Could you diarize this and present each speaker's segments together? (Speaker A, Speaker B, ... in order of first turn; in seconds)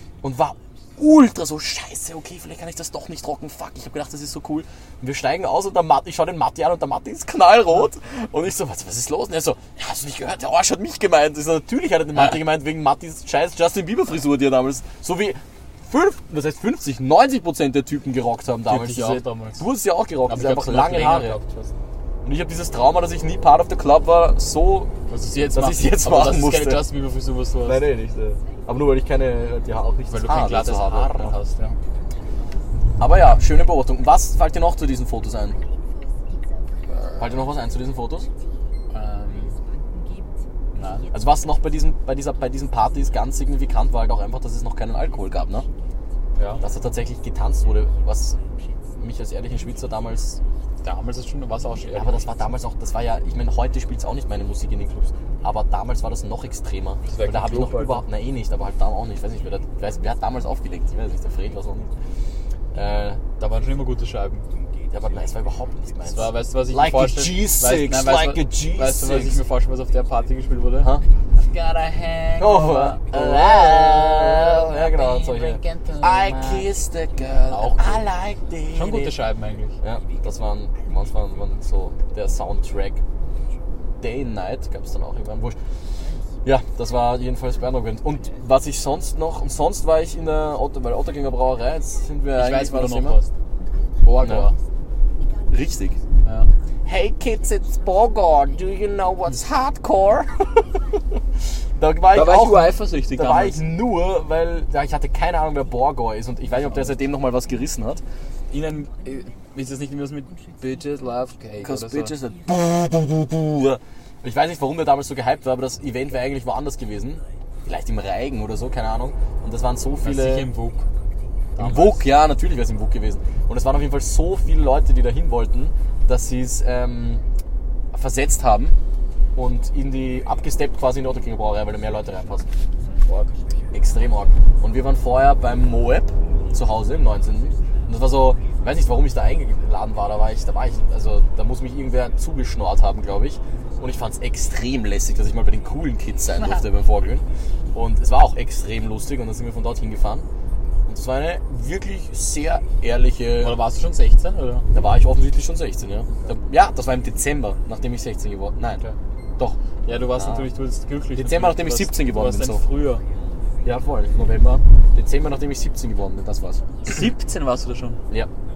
Speaker A: 0.2-21.4, 22.2-24.9, 25.5-26.9, 27.6-31.3, 33.0-35.6, 37.2-38.3, 41.1-45.7, 46.6-48.4, 49.0-50.4, 51.9-61.9, 62.7-63.2, 64.9-69.4, 72.4-79.2, 79.8-83.0, 84.0-85.6, 86.4-93.2, 94.2-94.5, 95.5-96.0, 96.8-100.8, 101.8-108.0, 111.6-120.5, 121.6-127.2, 127.9-128.7, 129.3-132.4, 133.7-150.2, 150.9-153.6, 154.7-158.8, 160.1-160.5, 161.1-162.6, 163.6-167.1
Speaker B: 18.7-19.6, 20.3-21.7, 25.1-27.8, 30.1-31.8, 36.9-37.3, 38.9-39.5, 40.7-41.1, 46.4-46.6, 50.8-52.3, 57.0-58.0, 63.4-64.5, 66.1-76.7, 77.5-78.0, 78.7-79.8, 92.3-93.3, 94.0-94.5, 96.2-96.5, 102.1-103.6, 106.7-106.9, 108.5-112.1, 120.0-120.8, 121.5-122.0, 133.0-133.3, 153.4-154.7, 159.8-163.0, 166.8-168.0